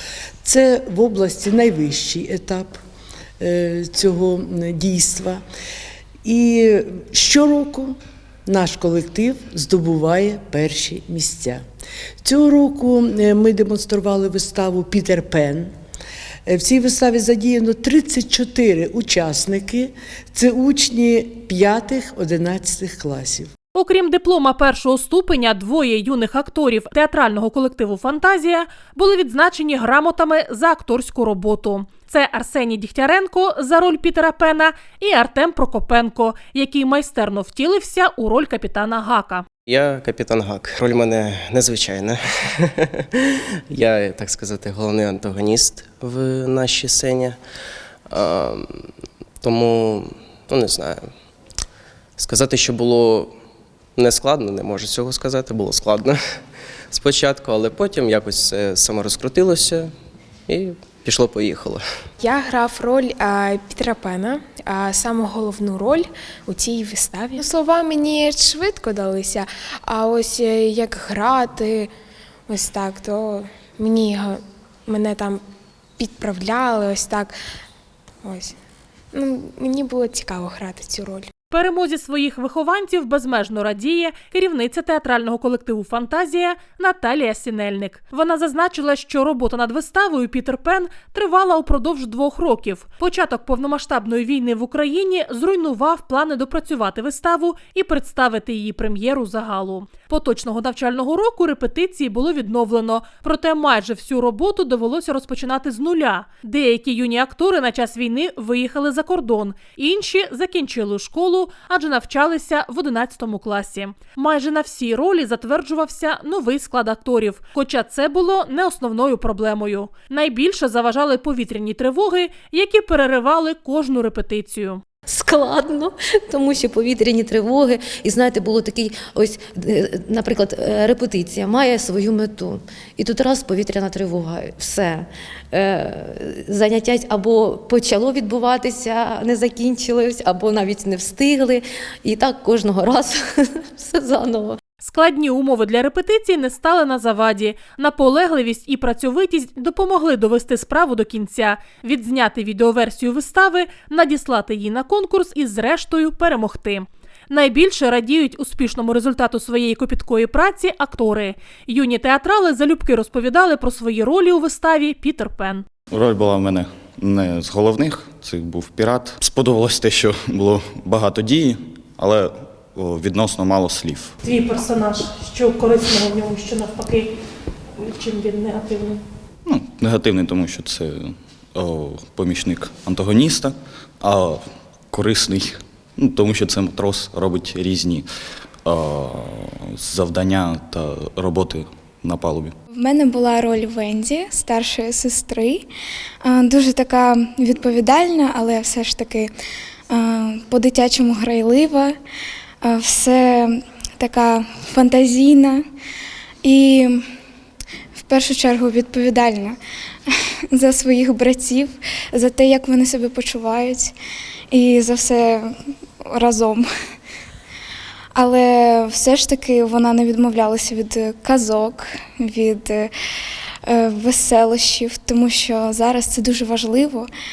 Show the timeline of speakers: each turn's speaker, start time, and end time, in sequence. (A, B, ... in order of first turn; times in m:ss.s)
0:00.4-0:02.8 A
0:03.4-0:05.4 A
0:06.2-0:11.6 A
0:12.2-0:15.7 A
0:16.5-0:23.5 A
0:23.7-0:39.4 B
0:39.6-0:47.4 C
0:48.1-0:48.9 C
0:49.4-0:51.1 C
0:52.2-0:53.3 C
0:54.0-0:56.2 C
0:56.9-0:59.9 C
1:00.5-1:01.8 C
1:02.2-1:11.9 D
1:12.5-1:15.4 D
1:16.0-1:17.4 D
1:18.2-1:18.5 D
1:19.1-1:21.3 D
1:21.5-2:04.8 B
2:05.1-2:23.2 E
2:23.8-2:24.6 E
2:24.8-2:45.6 B
2:45.9-2:52.3 F
2:52.9-2:54.0 F
2:54.2-2:57.1 B
2:57.8-2:59.0 B
2:59.4-3:04.4 F
3:04.9-3:08.0 F
3:08.6-3:09.2 F
3:09.9-3:12.5 F
3:12.7-3:15.6 G
3:16.2-3:19.3 G
3:19.9-3:21.9 G
3:22.6-3:25.6 G
3:26.4-3:27.0 G
3:28.0-3:29.6 G
3:30.1-3:33.9 G
3:34.5-3:35.5 G
3:36.1-3:36.6 G
3:38.1-3:42.9 G
3:43.7-3:47.1 G